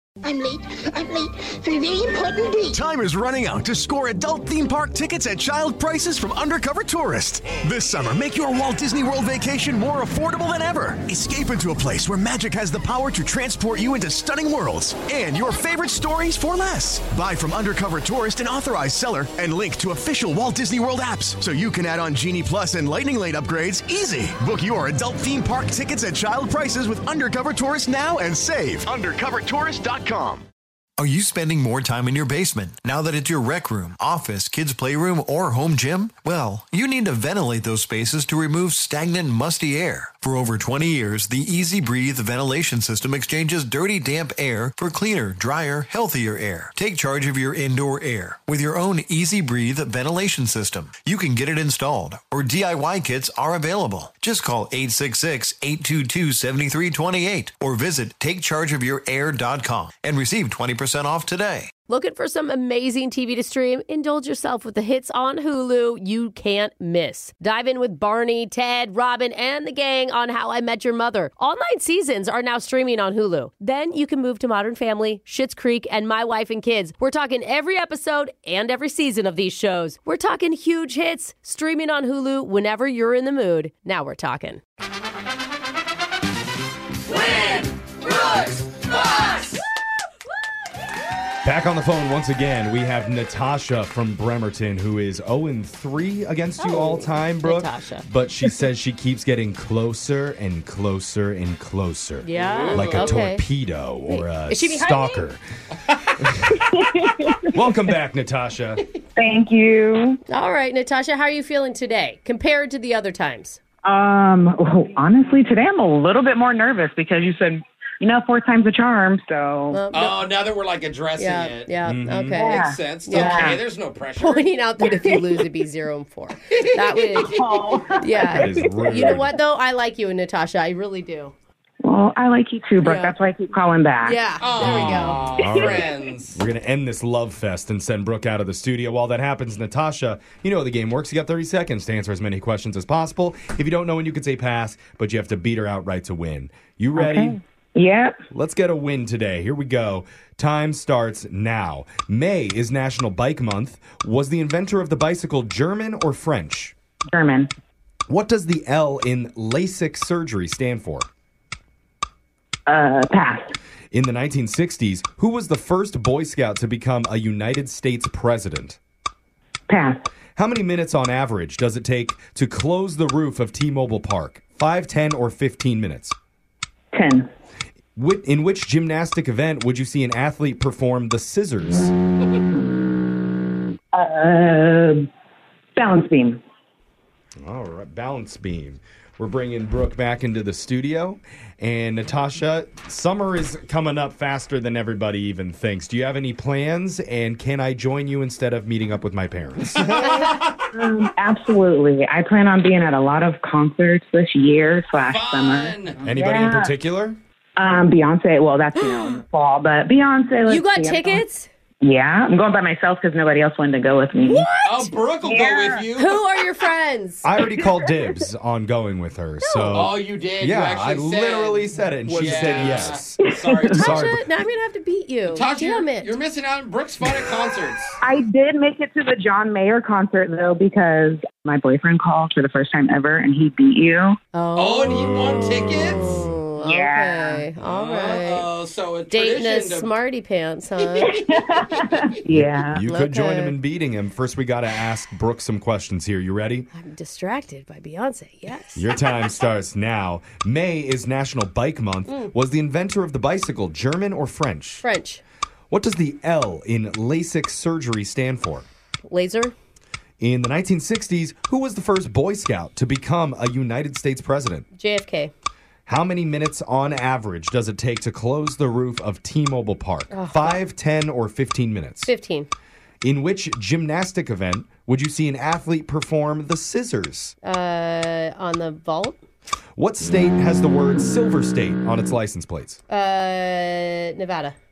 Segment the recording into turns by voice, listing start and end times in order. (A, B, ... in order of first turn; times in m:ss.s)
0:00.2-0:02.8 A
0:02.6-0:30.4 B
0:31.0-1:01.7 C
1:01.9-1:24.6 D
1:27.1-1:29.5 E
1:31.4-1:45.4 F
1:36.6-1:38.0 D
1:42.2-1:43.4 D
1:42.3-1:43.2 E
1:44.0-1:45.2 D
1:46.2-1:46.6 F
1:46.5-1:47.5 G
1:47.5-1:48.8 F
1:49.2-1:50.2 G
1:50.3-1:53.6 D
1:53.8-1:59.8 G
1:59.7-2:00.2 D
1:59.9-2:01.7 E
2:01.2-2:03.5 D
2:01.8-2:02.4 F
2:02.3-2:04.4 E
2:02.4-2:03.6 G
2:04.2-2:07.4 D
2:06.6-2:07.6 E
2:07.2-2:09.1 G
2:08.0-2:11.3 D
2:08.3-2:09.3 F
2:11.8-2:14.2 G
2:12.8-2:13.2 D
2:14.0-2:15.2 D
2:14.4-2:16.4 E
2:14.6-2:27.4 F
2:27.0-2:28.2 G
2:28.3-2:36.7 F
2:37.1-2:37.5 G
2:38.1-2:41.1 F
2:42.7-2:43.5 G
2:43.9-2:48.8 F
2:49.7-2:50.0 G
2:50.4-2:56.1 F
2:56.9-2:57.3 G
2:58.0-3:01.9 F
3:03.9-3:05.0 G
3:05.8-3:06.4 G
3:07.4-3:20.2 F
3:19.8-3:20.6 E
3:20.7-3:26.7 G
3:25.0-3:26.0 E
3:26.0-3:27.2 F
3:27.6-3:31.2 G
3:28.8-3:29.2 D
3:30.4-3:31.5 D
3:31.8-3:34.5 G
3:34.2-3:34.8 D
3:34.6-3:36.2 E
3:35.2-3:35.9 G
3:36.0-3:37.2 D
3:37.2-3:44.2 F
3:39.4-3:40.0 D
3:39.7-3:44.1 E
3:43.7-3:46.1 D
3:45.3-3:48.0 E
3:48.0-3:54.2 G
3:54.3-3:58.5 D
3:54.6-3:56.1 E
3:54.9-3:56.4 F
3:56.6-3:57.4 G
3:57.6-3:59.9 E
3:59.1-4:01.2 D
4:00.8-4:02.0 E
4:01.1-4:02.8 G
4:02.3-4:06.7 F
4:02.8-4:03.5 D
4:06.7-4:08.9 D
4:08.8-4:14.8 F
4:14.8-4:15.2 D
4:15.7-4:18.6 F
4:19.1-4:19.5 D
4:20.2-4:24.6 F
4:24.7-4:25.3 D
4:25.8-4:32.1 F
4:30.1-4:30.6 D
4:32.0-4:32.5 D
4:33.0-4:37.3 F
4:37.4-4:39.2 D
4:39.8-4:42.8 F
4:42.9-4:44.6 D